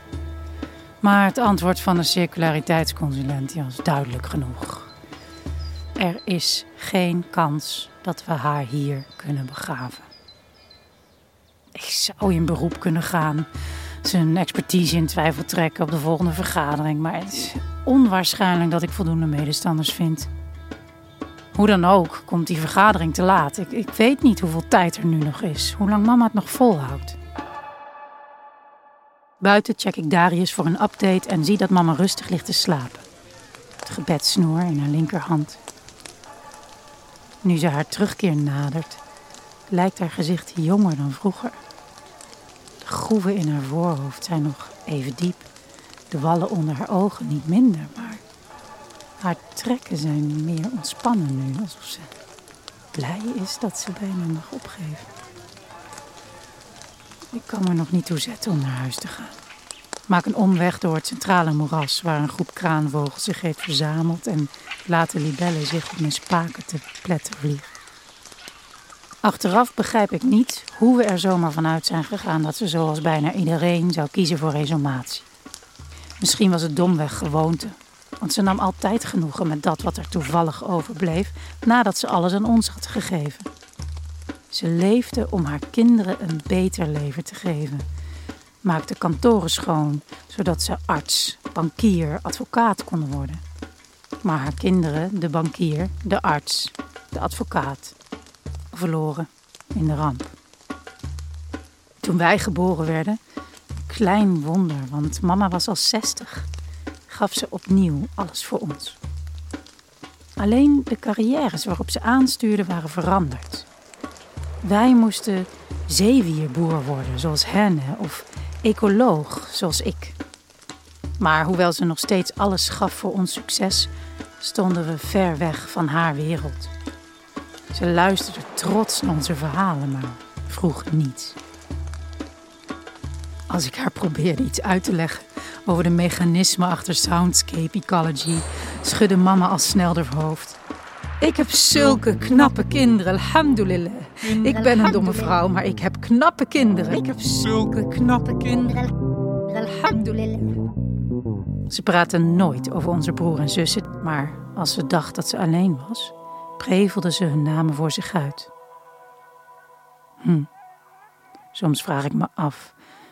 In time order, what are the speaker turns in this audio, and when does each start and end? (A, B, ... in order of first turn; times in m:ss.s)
0:01.0-0:04.9 A
0:06.0-0:10.1 A
0:11.8-0:13.5 A
0:14.0-0:20.3 A
0:21.5-0:27.2 A
0:29.4-0:33.0 A
0:33.8-0:35.6 A
0:37.4-0:39.0 A
0:39.7-0:41.6 A
0:42.8-0:45.5 A
0:46.1-0:48.2 A
0:49.2-0:52.1 A
0:52.9-0:55.1 A
0:57.3-0:59.4 A
1:00.1-1:07.7 A
1:09.2-1:15.3 A
1:16.2-1:23.5 A
1:24.5-1:27.8 A
1:28.6-1:33.4 A
1:34.2-1:38.0 A
1:38.7-1:40.3 A
1:42.0-1:43.2 A
1:43.8-1:46.5 A
1:47.1-1:49.0 A
1:50.4-1:53.7 A
1:54.6-2:00.2 A
2:01.2-2:06.7 A
2:07.7-2:11.4 A
2:13.5-2:20.6 A
2:21.2-2:28.9 A
2:29.5-2:30.5 A
2:31.7-2:38.5 A
2:40.2-2:40.5 A
2:41.5-2:42.8 A